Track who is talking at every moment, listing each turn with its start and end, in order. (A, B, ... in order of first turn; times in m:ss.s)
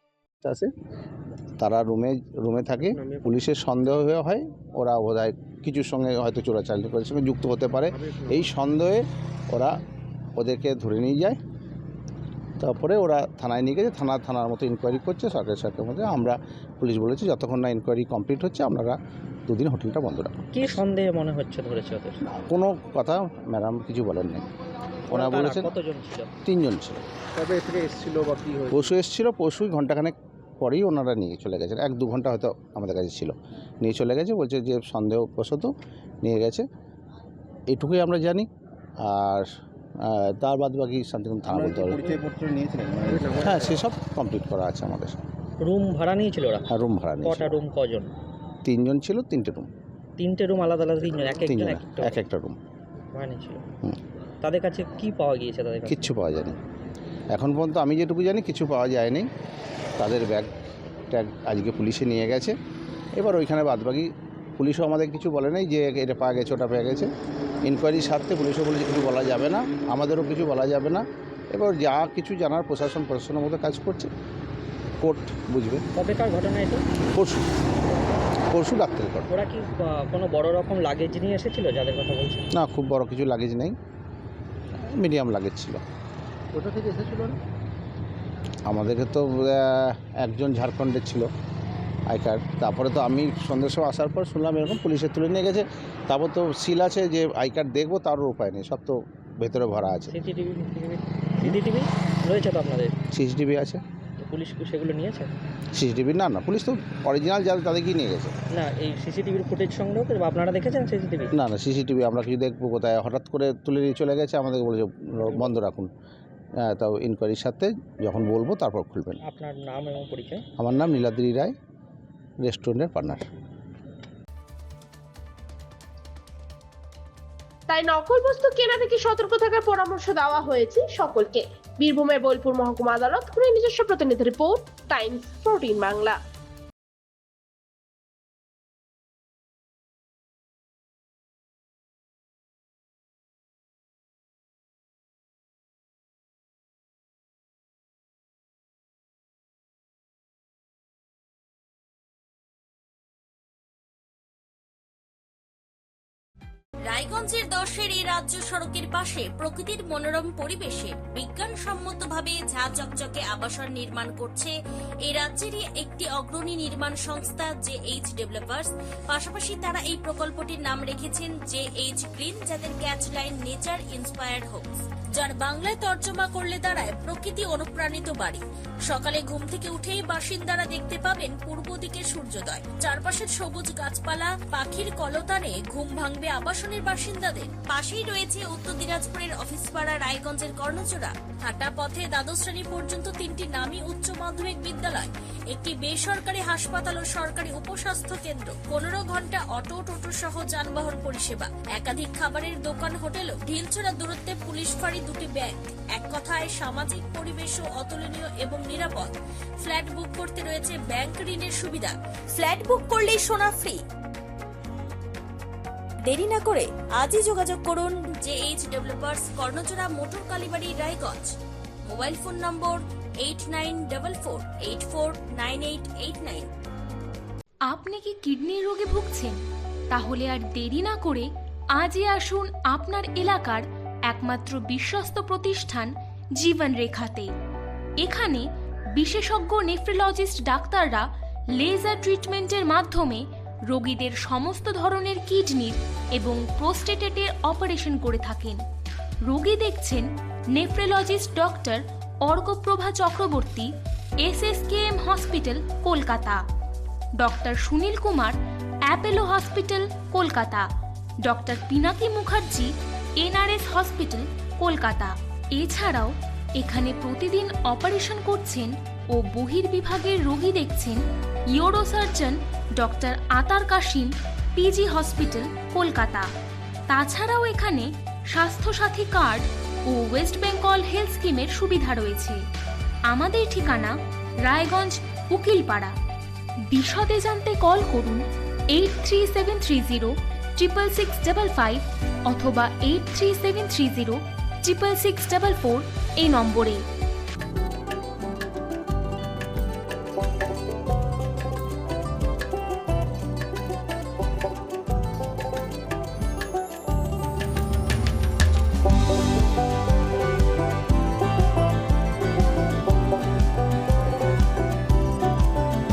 0:00.4-0:00.7 A
0:01.6-0:09.7 A
0:03.0-0:03.3 B
0:08.0-0:08.5 B
0:10.4-0:11.4 A
0:12.6-0:20.8 A
0:20.5-0:22.2 C
0:22.3-0:24.4 A
0:25.1-0:25.7 A
0:25.1-0:26.3 C
0:26.4-0:27.0 A
0:27.4-0:28.9 B
0:28.7-0:35.7 A
0:36.2-0:36.6 A
0:37.7-0:38.5 A
0:39.0-0:39.4 A
0:40.0-0:42.2 A
0:41.5-0:43.8 B
0:43.3-0:45.2 A
0:45.6-0:46.6 C
0:46.7-0:47.4 A
0:47.2-0:48.1 C
0:48.6-0:49.7 A
0:50.2-0:52.2 C
0:51.4-0:52.6 A
0:53.1-0:53.6 C
0:54.4-0:56.1 C
0:55.8-0:56.6 A
0:57.3-0:59.3 A
1:00.0-1:00.5 A
1:01.1-1:02.5 A
1:03.2-1:07.1 A
1:07.6-1:14.1 A
1:15.0-1:15.8 A
1:16.0-1:16.8 C
1:17.1-1:17.4 A
1:18.5-1:19.3 A
1:19.3-1:22.5 C
1:22.5-1:23.8 A
1:24.7-1:25.8 A
1:26.5-1:27.4 B
1:28.6-1:31.3 A
1:32.1-1:40.1 A
1:40.1-1:42.9 C
1:43.1-1:43.8 A
1:44.2-1:45.4 C
1:45.7-1:48.3 A
1:48.5-1:51.3 C
1:51.3-1:55.9 A
1:55.2-1:55.5 C
1:56.6-1:59.2 A
1:59.2-2:00.4 C
2:00.6-2:01.5 A
2:02.4-2:03.2 A
2:07.7-2:16.2 D
2:36.8-2:44.5 E
2:45.0-3:33.8 E
3:36.0-3:41.3 E
3:41.9-3:46.5 E
3:47.7-3:49.4 F
3:49.9-3:57.3 F
3:58.0-4:08.6 F
4:09.2-4:16.4 F
4:17.2-4:18.4 F
4:18.9-4:20.7 F
4:21.2-4:36.3 F
4:36.9-4:42.4 F
4:43.1-4:45.9 F
4:46.7-4:56.8 F